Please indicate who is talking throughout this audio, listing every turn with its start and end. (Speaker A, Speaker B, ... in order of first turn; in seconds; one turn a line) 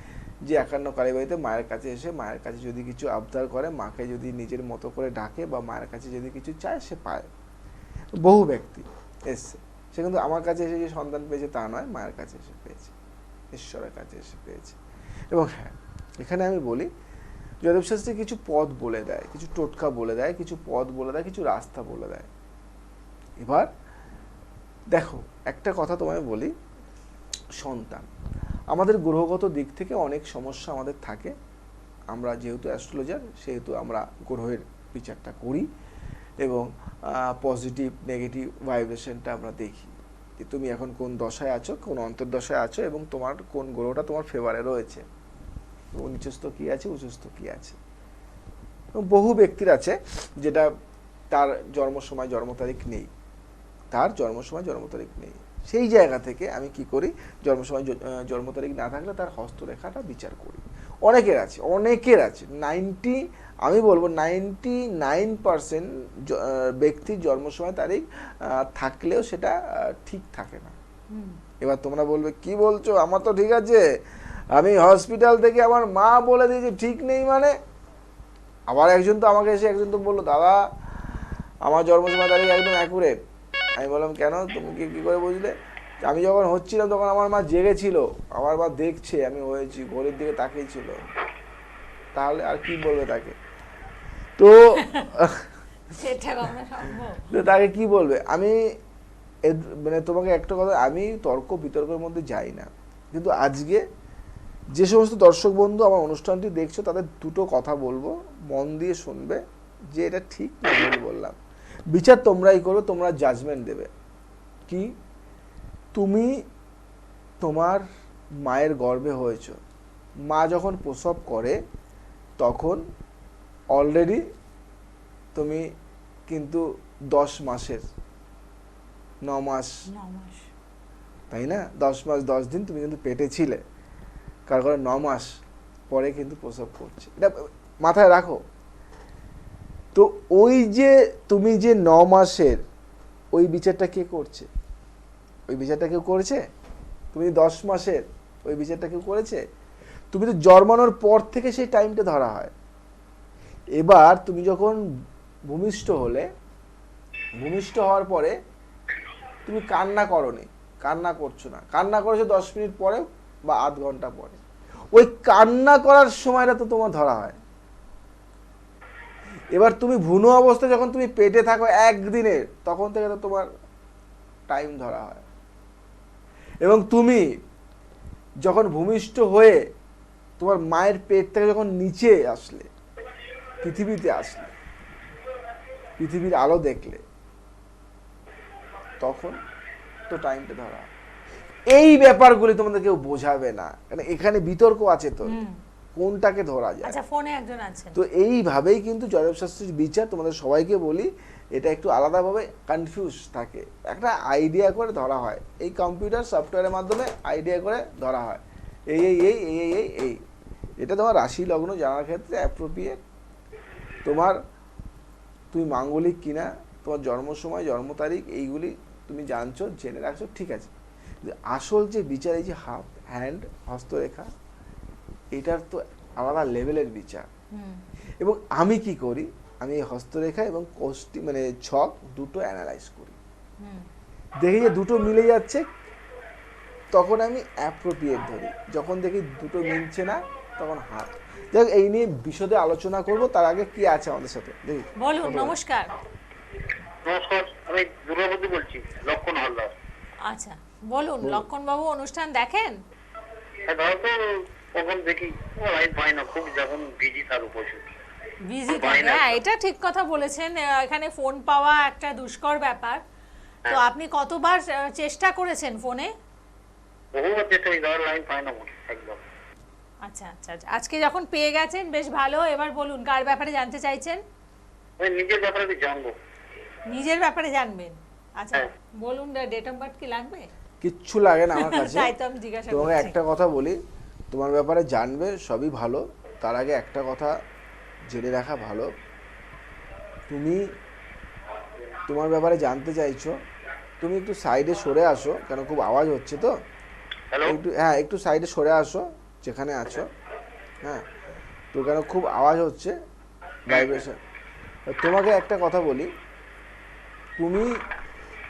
Speaker A: 0.5-7.3
Speaker A: 8.2-12.9
Speaker A: 13.5-14.8
Speaker A: 15.3-16.9
Speaker A: 17.6-22.3
Speaker A: 23.4-23.7
Speaker A: 24.9-26.5
Speaker A: 27.6-28.1
Speaker A: 28.7-31.3
Speaker A: 32.1-35.7
Speaker A: 36.4-45.0
Speaker A: 45.9-47.8
Speaker A: 49.0-50.7
Speaker A: 51.3-53.1
Speaker A: 53.9-70.8
Speaker B: 71.1-71.4
Speaker A: 71.6-73.8
Speaker A: 74.5-77.5
Speaker A: 78.7-80.6
Speaker A: 81.6-83.1
Speaker A: 83.8-85.5
Speaker A: 86.0-91.0
Speaker A: 92.1-93.4
Speaker A: 94.4-95.5
Speaker B: 96.0-97.4
Speaker A: 97.3-98.6
Speaker A: 99.5-103.8
Speaker A: 104.8-109.4
Speaker A: 109.9-111.4
Speaker A: 111.9-113.9
Speaker A: 115.9-116.3
Speaker A: 117.4-117.8
Speaker A: 118.5-119.6
Speaker A: 120.3-121.6
Speaker A: 122.4-122.8
Speaker A: 123.7-124.2
Speaker A: 125.3-125.7
Speaker A: 126.3-127.8
Speaker A: 129.2-129.7
Speaker B: 129.9-130.5
Speaker A: 131.3-133.6
Speaker A: 134.5-135.3
Speaker A: 135.9-138.4
Speaker A: 139.9-142.6
Speaker A: 143.3-144.5
Speaker A: 145.5-146.4
Speaker A: 147.1-149.4
Speaker A: 150.1-152.5
Speaker A: 153.8-154.8
Speaker A: 155.5-156.3
Speaker A: 157.4-158.3
Speaker A: 159.4-164.4
Speaker A: 164.9-167.4
Speaker A: 169.5-173.5
Speaker A: 174.5-175.2
Speaker A: 176.6-177.3
Speaker A: 178.4-179.6
Speaker A: 180.4-182.7
Speaker A: 183.6-184.5
Speaker A: 186.0-187.0
Speaker A: 189.0-189.4
Speaker A: 190.1-190.9
Speaker A: 191.7-195.4
Speaker B: 195.3-195.6
Speaker A: 196.0-197.0
Speaker B: 196.8-198.0
Speaker A: 197.9-210.2
Speaker A: 210.8-213.0
Speaker A: 214.1-214.4
Speaker A: 215.5-220.7
Speaker A: 221.2-224.3
Speaker A: 225.3-227.3
Speaker B: 227.5-227.8
Speaker A: 228.2-233.2
Speaker B: 233.6-233.9
Speaker A: 234.4-235.7
Speaker A: 236.9-245.5
Speaker B: 245.0-245.9
Speaker C: 247.1-249.7
Speaker B: 250.3-252.7
Speaker C: 253.7-254.2
Speaker C: 254.7-257.9
Speaker B: 258.5-263.0
Speaker C: 258.7-259.4
Speaker B: 263.7-266.1
Speaker C: 267.1-269.2
Speaker B: 270.1-274.2
Speaker C: 275.0-276.1
Speaker B: 276.9-280.5
Speaker A: 280.8-282.1
Speaker B: 281.6-283.2
Speaker A: 282.7-283.8
Speaker A: 284.3-287.4
Speaker A: 288.1-288.9
Speaker A: 290.3-290.6
Speaker A: 292.1-293.3
Speaker A: 294.0-296.5
Speaker C: 297.3-297.6
Speaker A: 297.4-300.1
Speaker A: 301.7-302.9
Speaker A: 303.7-304.2
Speaker C: 303.7-304.0
Speaker A: 304.9-306.1
Speaker A: 307.4-307.7